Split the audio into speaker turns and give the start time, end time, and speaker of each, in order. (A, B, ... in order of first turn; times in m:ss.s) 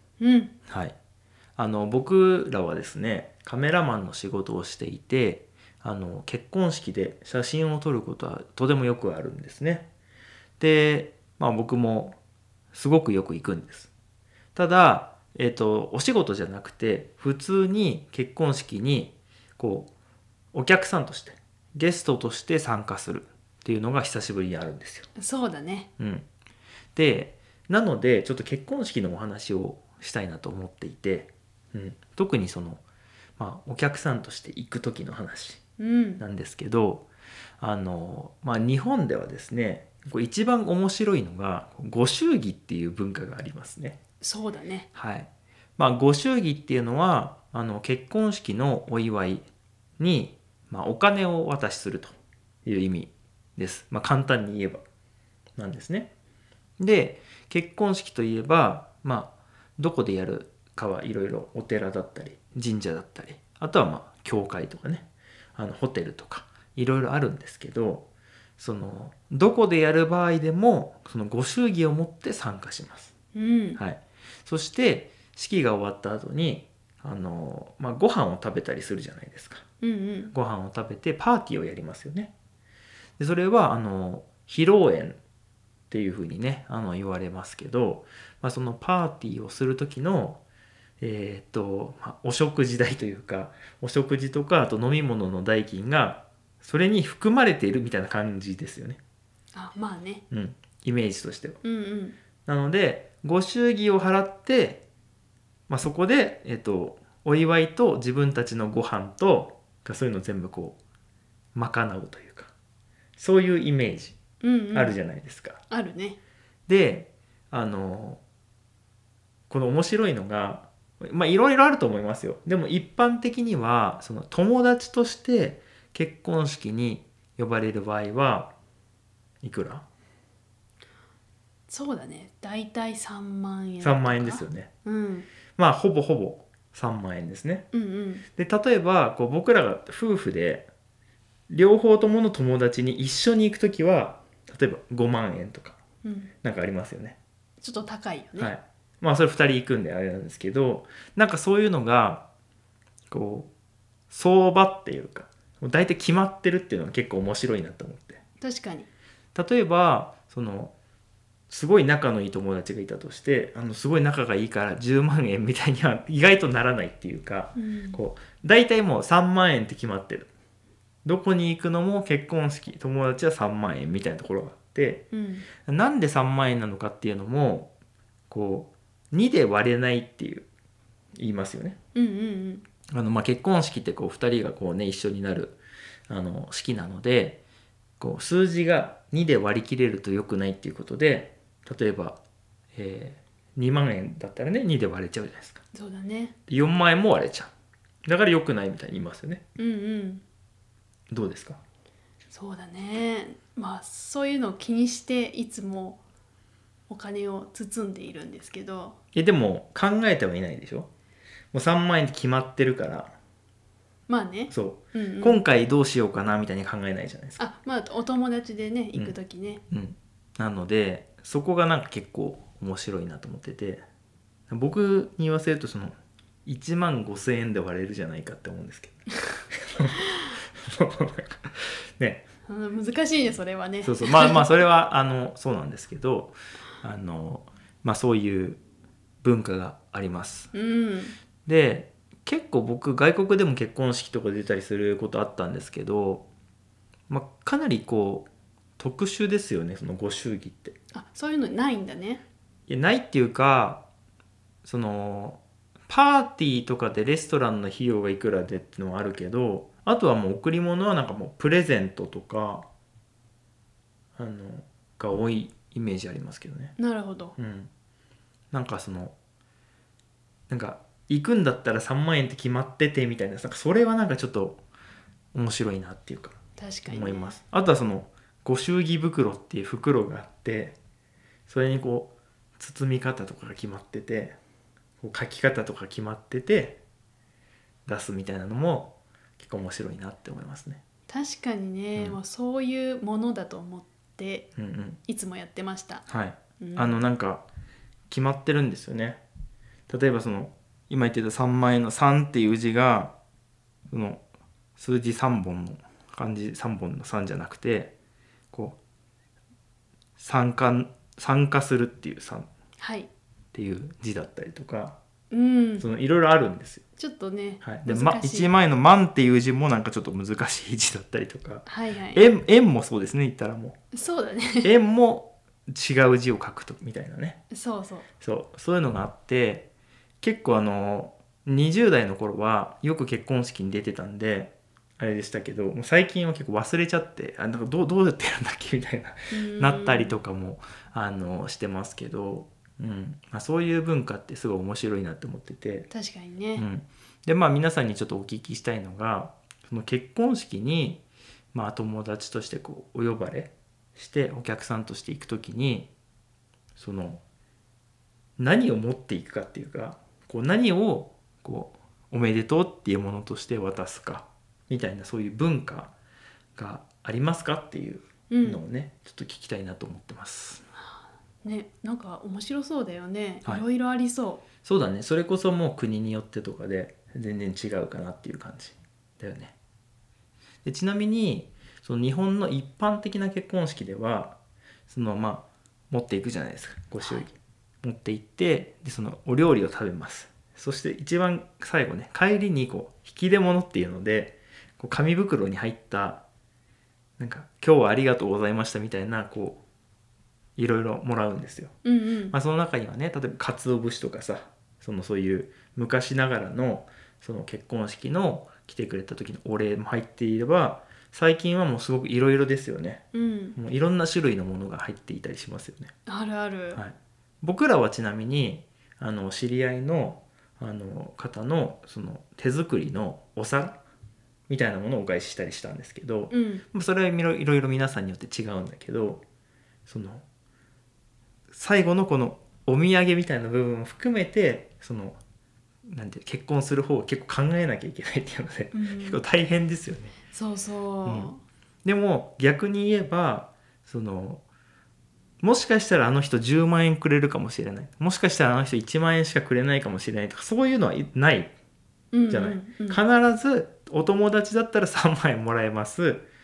0:00.2-0:00.5 A
0:00.7-0:01.0 B
0:01.6-0:09.9 B
0:10.6-0:12.2 B
0:12.7-0:13.9 B
0:14.6-0:19.9 B
0:20.5-0:25.1 B
0:25.2-0:25.9 A
0:26.0-0:26.3 B
0:27.0-0:32.8 B
0:33.4-0:35.6 B
0:35.8-0:36.2 A
0:36.2-0:37.1 B
0:37.6-0:44.0 B
0:44.2-0:44.9 A
0:44.9-0:49.5 B
0:50.0-0:54.8 B
0:55.6-0:56.1 B
0:56.8-1:08.1 B
1:08.6-1:13.1 B
1:13.3-1:13.8 A
1:13.8-1:19.6 B
1:19.8-1:20.3 A
1:20.3-1:22.3 B
1:23.2-1:25.2 B
1:25.9-1:30.4 B
1:31.0-1:39.0 B
1:39.5-1:40.2 A
1:40.3-1:41.6 B
1:41.6-1:42.2 A
1:42.5-1:44.8 B
1:45.7-1:50.8 B
1:51.6-1:52.5 B
1:53.2-1:54.2 B
1:54.4-1:55.0 A
1:54.7-1:55.6 B
1:55.7-1:56.2 A
1:56.7-1:58.2 B
1:59.5-2:08.5 B
2:09.4-2:09.9 B
2:11.7-2:15.3 A
2:13.8-2:14.7 B
2:15.6-2:17.7 B
2:17.7-2:18.2 A
2:18.4-2:20.7 B
2:21.5-2:25.8 B
2:26.0-2:26.3 A
2:26.4-2:27.2 B
2:27.6-2:28.5 A
2:28.4-2:32.3 B
2:33.1-2:33.5 B
2:34.1-2:38.2 B
2:38.4-2:38.9 A
2:39.4-2:40.7 B
2:41.5-2:50.3 B
2:47.6-2:48.0 A
2:51.0-2:55.1 B
2:55.1-2:55.5 A
2:55.6-2:57.7 B
2:58.3-3:00.5 B
3:01.2-3:01.8 B
3:02.0-3:02.7 A
3:02.9-3:05.6 B
3:06.1-3:07.4 B
3:08.0-3:12.2 B
3:12.8-3:15.6 B
3:15.7-3:16.4 A
3:16.5-3:17.5 B
3:18.1-3:19.4 B
3:19.6-3:20.2 A
3:21.1-3:21.6 B
3:22.3-3:26.0 A
3:26.9-3:29.0 A
3:29.1-3:30.9 B
3:31.5-3:33.1 B
3:34.1-3:35.4 A
3:34.5-3:37.4 B
3:37.4-3:39.6 A
3:39.7-3:43.8 B
3:44.5-3:52.2 B
3:52.5-3:54.5 A
3:53.8-3:58.6 B
3:59.2-4:00.5 B
4:00.5-4:01.2 A
4:01.5-4:06.2 B
4:07.1-4:08.3 B
4:08.8-4:10.8 B
4:10.9-4:12.2 A
4:12.7-4:13.8 B
4:14.6-4:22.7 B
4:24.2-4:26.8 B
4:26.8-4:27.4 A
4:27.4-4:27.7 B
4:28.5-4:29.1 B
4:30.5-4:34.6 B
4:35.3-4:36.4 B
4:36.6-4:37.4 A
4:36.9-4:40.8 B
4:41.5-4:44.4 B
4:45.0-4:46.8 B
4:47.9-4:50.8 B
4:51.1-4:54.5 A
4:54.6-4:55.0 B
4:55.1-4:56.0 A
4:56.1-4:57.4 B
4:56.6-4:56.9 A
4:58.1-4:59.2 B
4:59.9-5:03.1 B
5:03.9-5:04.2 B
5:04.8-5:07.9 B
5:08.5-5:08.8 B
5:10.2-5:12.5 B
5:12.8-5:13.1 A
5:13.5-5:15.0 B
5:15.3-5:15.8 A
5:15.8-5:16.8 B
5:17.0-5:18.5 A
5:17.6-5:23.8 B
5:21.7-5:22.3 A
5:23.9-5:24.7 A
5:24.6-5:27.4 B
5:27.5-5:28.1 A
5:28.2-5:29.7 B
5:30.2-5:45.9 B
5:39.3-5:40.1 A
5:45.9-5:46.7 A
5:46.6-5:51.0 B
5:51.5-5:55.9 B
5:56.8-5:57.2 B
5:58.4-6:05.9 B
6:06.6-6:10.6 B
6:08.3-6:08.6 A
6:10.8-6:14.4 A
6:14.6-6:19.5 B
6:20.6-6:24.4 B
6:24.9-6:36.2 B
6:27.0-6:27.3 A
6:37.2-6:39.6 B
6:40.6-6:41.8 B
6:41.8-6:42.4 A
6:42.3-6:55.9 B
6:53.1-6:53.6 A
6:56.1-6:56.8 A
6:56.7-7:03.8 B
7:04.5-7:09.2 B
7:06.3-7:06.6 A
7:09.9-7:10.2 B
7:11.5-7:15.2 B
7:15.9-7:20.2 B
7:18.7-7:19.2 A
7:20.3-7:21.4 A
7:21.1-7:21.3 B
7:21.8-7:24.4 B
7:25.4-7:31.5 B
7:32.1-7:33.0 A
7:32.3-7:36.3 B